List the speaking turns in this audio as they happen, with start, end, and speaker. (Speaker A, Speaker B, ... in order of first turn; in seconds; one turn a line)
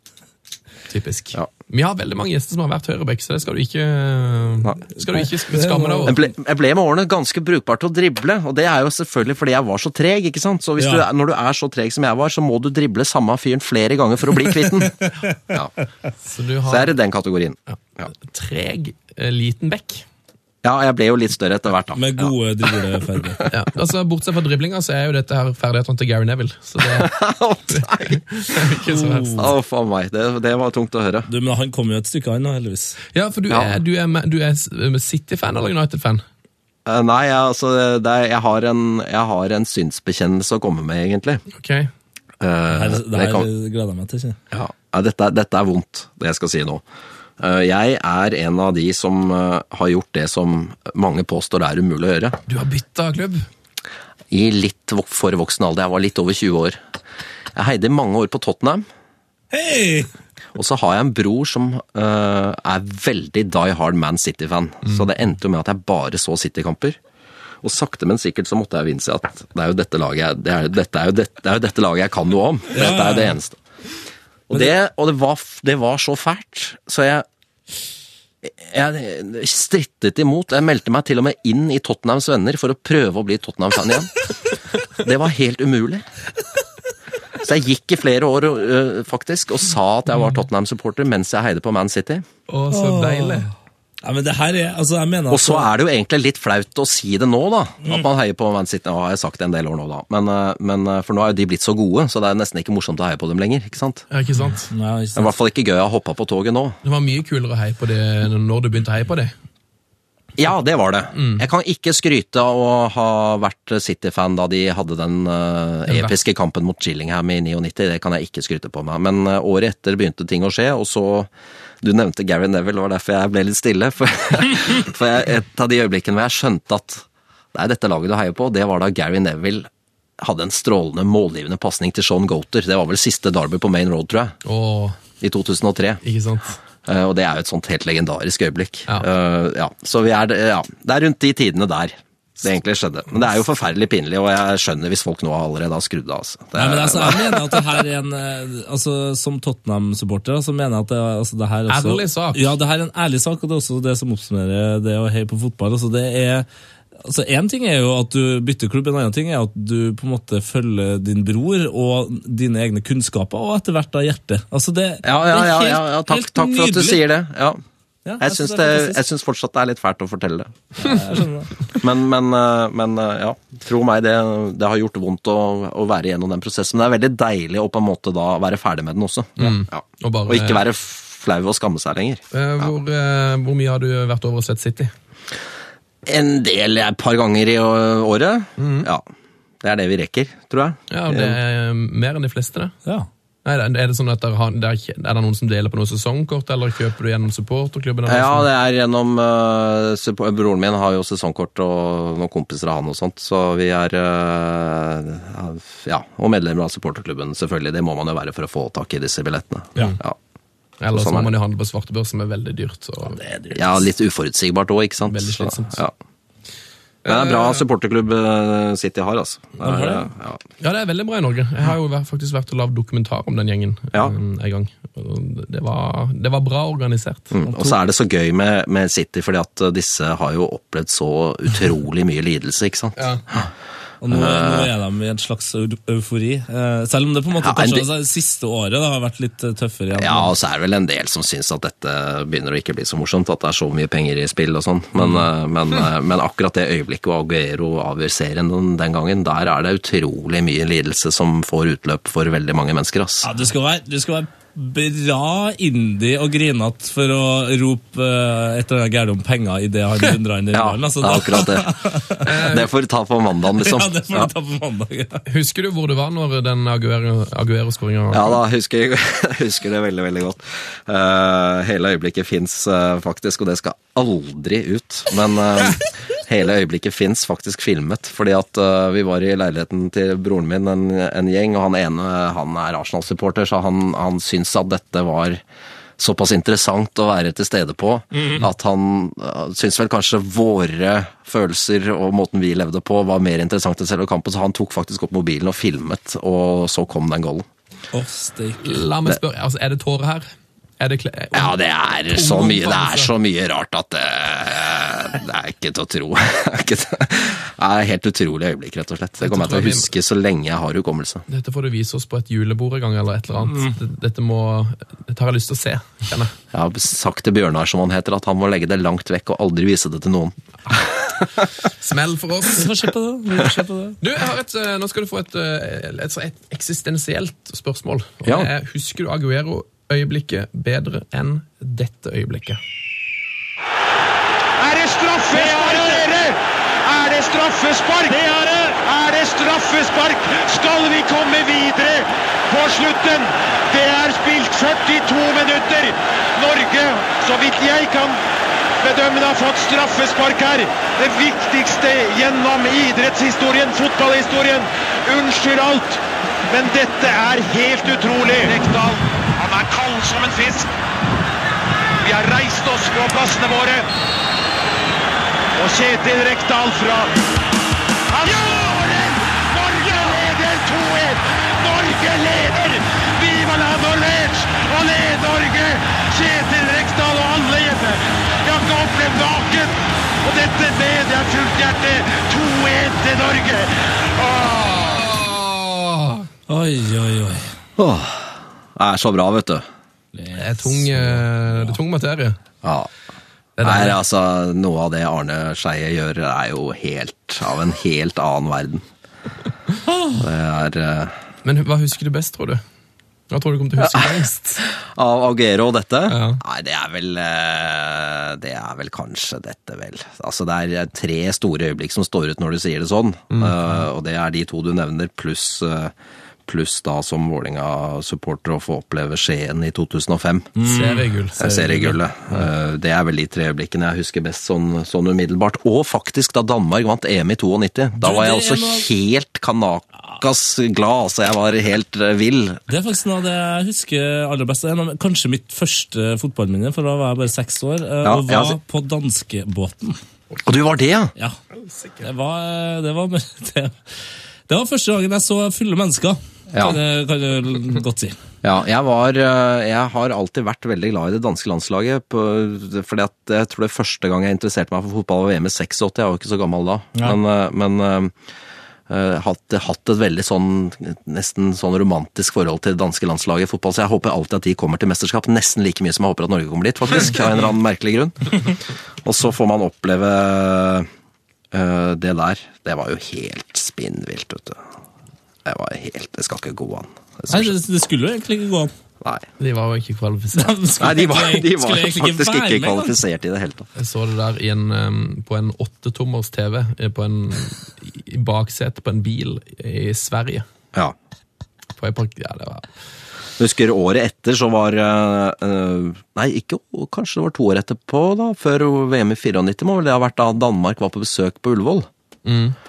Speaker A: 0.9-6.2
Speaker B: 5.0-6.3
Speaker C: 6.1-15.7
Speaker B: 10.8-11.1
Speaker A: 16.2-16.9
Speaker C: 16.7-18.1
Speaker A: 17.7-20.1
Speaker C: 20.6-22.3
Speaker B: 21.9-23.5
Speaker A: 23.5-27.1
Speaker C: 26.8-28.2
Speaker A: 27.7-29.4
Speaker B: 28.9-29.5
Speaker C: 29.4-31.3
Speaker B: 31.3-33.0
Speaker A: 33.1-36.2
Speaker C: 33.5-33.8
Speaker C: 36.9-41.4
Speaker A: 41.5-41.9
Speaker C: 42.4-43.5
Speaker B: 42.7-44.4
Speaker C: 44.5-46.8
Speaker C: 47.4-52.4
Speaker A: 52.5-53.5
Speaker C: 54.3-56.8
Speaker C: 57.5-58.9
Speaker B: 59.5-60.1
Speaker C: 60.5-67.0
Speaker C: 67.6-73.6
Speaker B: 72.8-73.4
Speaker C: 74.5-77.3
Speaker C: 78.4-84.1
Speaker C: 85.0-86.0
Speaker C: 87.4-92.2
Speaker A: 92.5-93.5
Speaker B: 92.7-93.5
Speaker B: 94.0-95.7
Speaker C: 95.3-104.1
Speaker A: 104.1-104.7
Speaker B: 104.7-105.3
Speaker C: 105.2-106.8
Speaker A: 106.8-109.3
Speaker C: 110.4-121.3
Speaker A: 111.2-111.4
Speaker A: 115.9-116.2
Speaker C: 121.8-129.7
Speaker C: 130.2-134.4
Speaker A: 134.4-135.0
Speaker C: 135.2-136.0
Speaker A: 136.0-136.6
Speaker C: 136.9-147.8
Speaker B: 146.6-156.5
Speaker A: 151.7-152.5
Speaker B: 157.0-167.0
Speaker C: 165.0-167.6
Speaker B: 168.1-169.0
Speaker C: 168.2-170.5
Speaker B: 170.8-171.7
Speaker C: 171.8-182.7
Speaker A: 179.4-180.6
Speaker A: 182.3-184.9
Speaker C: 186.1-189.1
Speaker A: 188.6-188.9
Speaker C: 189.6-191.4
Speaker A: 190.9-192.8
Speaker A: 193.4-198.5
Speaker C: 198.1-210.2
Speaker A: 210.8-213.2
Speaker C: 210.9-211.3
Speaker B: 213.1-213.7
Speaker C: 213.5-215.9
Speaker A: 215.1-215.8
Speaker A: 217.1-217.7
Speaker C: 217.1-220.4
Speaker B: 219.6-220.1
Speaker A: 220.6-227.3
Speaker C: 227.3-233.5
Speaker B: 227.5-227.8
Speaker A: 233.0-233.2
Speaker B: 234.0-240.3
Speaker C: 234.1-234.7
Speaker C: 237.4-237.9
Speaker C: 239.9-253.3
Speaker B: 253.2-262.2
Speaker C: 260.5-264.3
Speaker A: 262.2-262.7
Speaker B: 263.6-265.2
Speaker A: 265.3-268.4
Speaker C: 268.1-285.4
Speaker C: 286.0-297.5
Speaker B: 288.2-288.4
Speaker B: 297.9-298.8
Speaker A: 298.6-300.3
Speaker A: 300.8-301.6
Speaker C: 301.3-311.2
Speaker A: 302.1-303.1
Speaker A: 309.2-309.9
Speaker A: 311.3-316.3
Speaker C: 316.5-321.3
Speaker A: 321.8-322.7
Speaker B: 322.6-324.0
Speaker A: 324.0-332.6
Speaker D: 334.6-348.2
Speaker D: 348.8-360.7
Speaker D: 362.0-363.9
Speaker D: 365.6-367.1
Speaker D: 368.1-385.1
Speaker A: 385.0-386.3
Speaker B: 386.5-387.5
Speaker C: 387.8-389.6
Speaker B: 390.1-391.3
Speaker A: 390.4-392.4
Speaker C: 392.6-392.9
Speaker A: 393.6-394.0
Speaker C: 393.6-398.8
Speaker C: 400.1-401.1
Speaker A: 401.4-402.6
Speaker A: 403.3-404.6
Speaker C: 403.8-404.1
Speaker C: 404.6-415.9
Speaker A: 406.1-406.4
Speaker A: 413.3-413.9
Speaker C: 416.5-420.6
Speaker B: 420.6-421.9
Speaker A: 420.6-421.7
Speaker C: 421.4-432.6
Speaker B: 428.0-428.9
Speaker B: 432.7-440.0
Speaker C: 438.0-438.6
Speaker C: 440.4-441.1
Speaker A: 441.6-442.1
Speaker B: 442.0-443.8
Speaker B: 444.5-448.2
Speaker C: 446.5-446.8
Speaker C: 448.4-458.1
Speaker C: 458.9-470.9
Speaker C: 471.5-474.6
Speaker C: 475.4-477.6
Speaker B: 477.3-478.7
Speaker A: 479.4-480.6
Speaker B: 480.4-483.0
Speaker C: 480.8-483.7
Speaker A: 483.8-490.5
Speaker A: 491.8-492.7
Speaker C: 493.4-501.9
Speaker A: 502.2-502.6